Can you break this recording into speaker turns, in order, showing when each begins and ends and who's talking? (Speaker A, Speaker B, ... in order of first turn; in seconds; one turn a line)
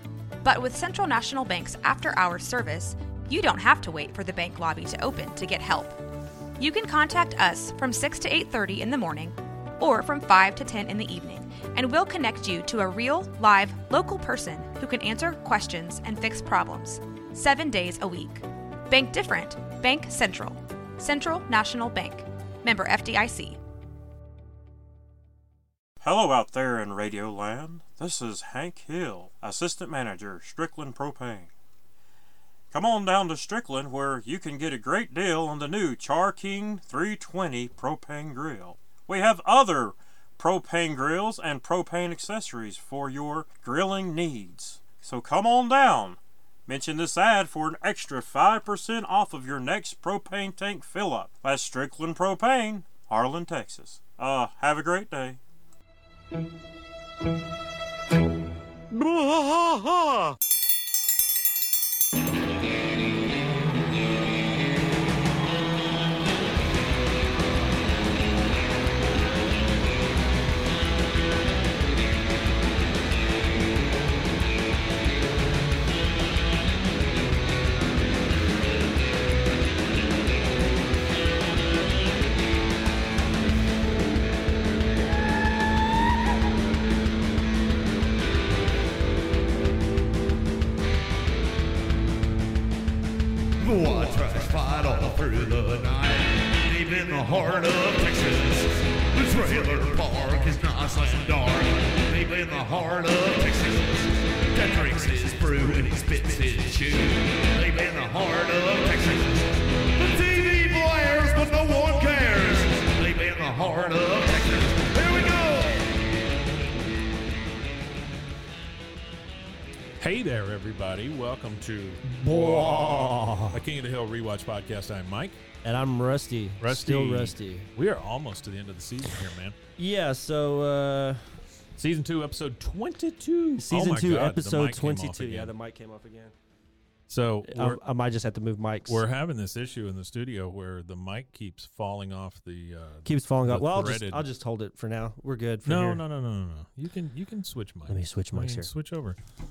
Speaker A: 0.4-6.0
Speaker A: 6.6-23.6
Speaker B: 26.0-31.5
Speaker B: 32.7-55.4
Speaker B: 58.9-60.3
Speaker C: 93.6-115.9
Speaker D: 120.0-125.4
Speaker E: 122.1-123.6
Speaker E: 125.6-127.7
Speaker D: 126.6-129.6
Speaker E: 129.8-131.2
Speaker D: 131.8-135.5
Speaker E: 133.6-136.3
Speaker D: 137.1-137.8
Speaker E: 137.4-139.0
Speaker D: 138.9-144.3
Speaker E: 143.1-146.0
Speaker D: 145.7-149.2
Speaker E: 147.9-148.7